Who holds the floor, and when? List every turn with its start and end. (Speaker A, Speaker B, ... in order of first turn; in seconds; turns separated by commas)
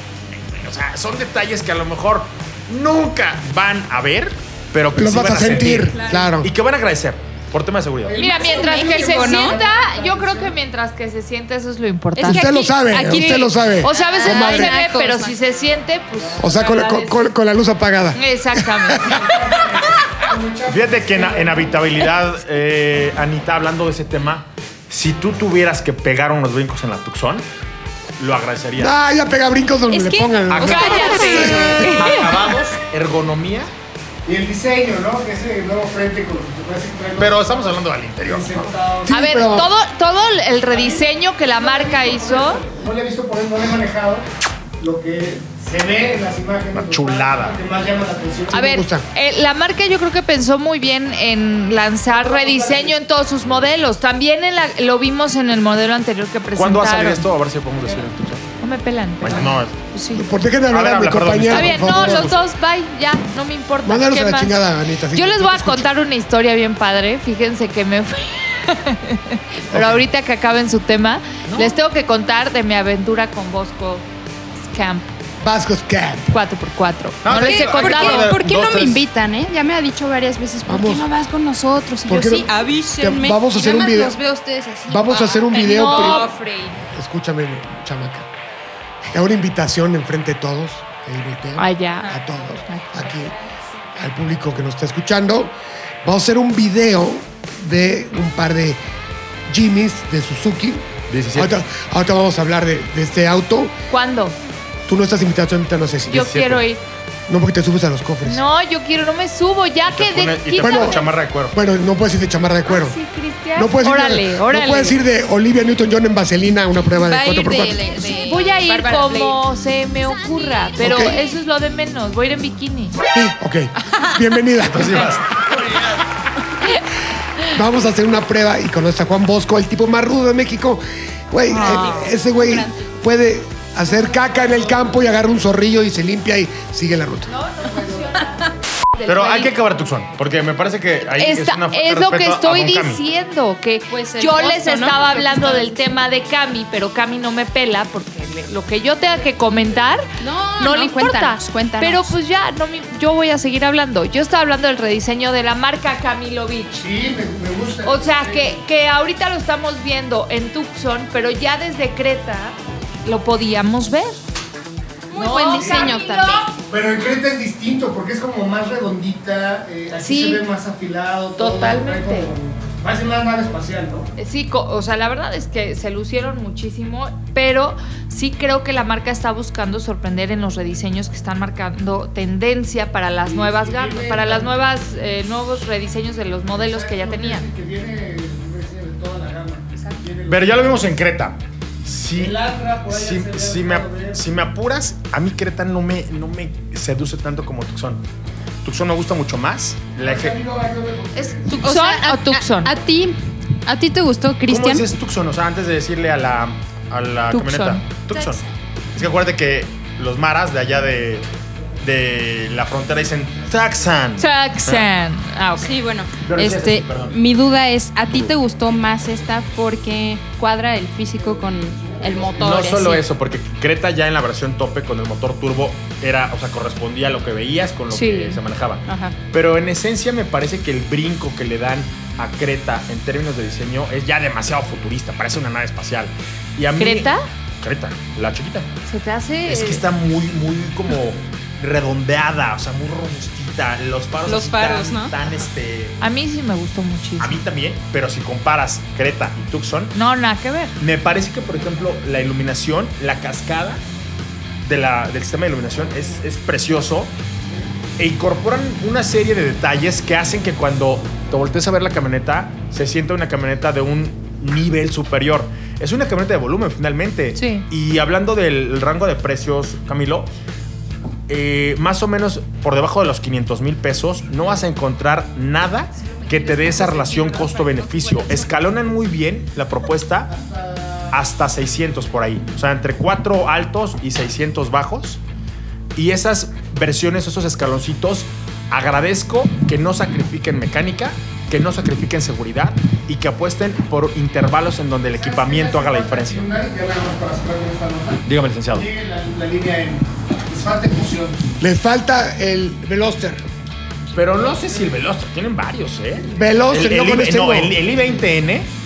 Speaker A: 0.4-8.2, Speaker B: 4.9-6.5, Speaker C: 6.0-6.3, Speaker D: 8.0-10.6, Speaker E: 8.2-17.3, Speaker C: 8.2-9.6, Speaker C: 12.2-15.4, Speaker B: 12.2-14.8, Speaker D: 16.2-16.5, Speaker B: 16.4-19.2, Speaker E: 18.1-19.3, Speaker D: 19.1-21.8, Speaker A: 20.7-27.4, Speaker A: 28.2-28.9, Speaker B: 28.8-31.9, Speaker C: 29.9-32.3, Speaker A: 30.5-33.7, Speaker E: 30.7-32.2, Speaker D: 34.3-37.5, Speaker A: 37.1-38.7, Speaker D: 38.2-39.1, Speaker B: 39.0-39.7, Speaker E: 39.1-42.6, Speaker D: 40.7-44.3, Speaker D: 44.8-48.7, Speaker A: 46.7-47.6, Speaker E: 48.5-57.2, Speaker B: 48.5-49.0, Speaker D: 52.1-53.0, Speaker A: 56.6-58.5, Speaker E: 58.6-60.2, Speaker A: 59.2-59.7, Speaker B: 60.1-62.4, Speaker A: 60.7-62.4, Speaker E: 61.5-64.6, Speaker B: 63.8-65.9, Speaker E: 65.1-74.0, Speaker A: 71.5-71.7, Speaker E: 74.7-75.1, Speaker B: 75.4-76.3, Speaker E: 76.3-78.4, Speaker A: 77.2-79.0, Speaker C: 77.3-86.8, Speaker B: 80.7-81.1, Speaker B: 82.1-84.2, Speaker B: 84.9-86.3, Speaker E: 85.5-86.3, Speaker B: 86.8-88.3, Speaker B: 89.1-93.3, Speaker E: 91.6-92.1, Speaker C: 92.7-93.3, Speaker B: 94.0-98.8, Speaker B: 99.5-103.7, Speaker A: 101.1-101.5, Speaker E: 103.9-104.4, Speaker B: 104.9-106.4, Speaker E: 106.1-106.8, Speaker A: 106.1-106.6, Speaker B: 107.3-108.4, Speaker E: 108.2-111.1, Speaker A: 109.9-111.6, Speaker B: 110.6-113.0, Speaker E: 112.7-115.0, Speaker B: 113.5-117.8, Speaker C: 116.9-119.4, Speaker E: 118.1-123.0, Speaker B: 120.8-121.2, Speaker B: 123.1-125.1, Speaker A: 124.7-125.4, Speaker B: 127.5-137.3, Speaker E: 131.5-132.1, Speaker C: 131.6-132.9, Speaker D: 133.9-135.3, Speaker E: 137.3-139.5, Speaker D: 137.7-138.1, Speaker A: 139.1-143.0, Speaker E: 141.1-150.1, Speaker C: 143.9-145.9, Speaker C: 150.2-152.2, Speaker E: 150.6-156.9, Speaker D: 156.8-158.6, Speaker E: 157.8-164.2, Speaker C: 165.1-166.5, Speaker E: 165.1-166.5, Speaker D: 165.6-165.9, Speaker D: 166.6-174.1, Speaker E: 169.9-170.4, Speaker E: 171.4-172.3, Speaker E: 174.2-187.4, Speaker D: 183.3-184.5, Speaker D: 186.6-191.0, Speaker A: 190.3-198.0, Speaker D: 192.2-194.2, Speaker A: 198.6-200.4, Speaker D: 200.0-201.6, Speaker E: 201.2-202.7, Speaker C: 201.6-204.9, Speaker A: 204.5-208.4, Speaker E: 207.3-207.8, Speaker C: 208.2-208.4, Speaker A: 208.9-211.3, Speaker A: 211.8-214.8, Speaker E: 214.2-215.7, Speaker C: 215.6-223.1, Speaker A: 216.2-217.2, Speaker D: 221.2-222.7, Speaker A: 222.4-237.1, Speaker E: 227.9-228.4, Speaker C: 228.9-229.2, Speaker E: 236.8-237.2, Speaker A: 237.6-238.7, Speaker E: 238.9-239.8, Speaker A: 239.5-246.0, Speaker C: 244.2-245.1, Speaker E: 246.0-247.4, Speaker A: 247.2-249.9, Speaker E: 249.9-250.7, Speaker A: 250.8-253.8, Speaker A: 254.6-257.1, Speaker A: 258.0-270.3, Speaker E: 267.4-267.6, Speaker A: 271.3-280.3, Speaker C: 276.0-278.6, Speaker D: 280.3-281.2, Speaker A: 281.1-285.2, Speaker A: 285.9-296.5, Speaker D: 295.1-301.5, Speaker A: 298.3-298.9, Speaker B: 301.6-303.4, Speaker A: 304.1-308.7, Speaker B: 306.3-307.8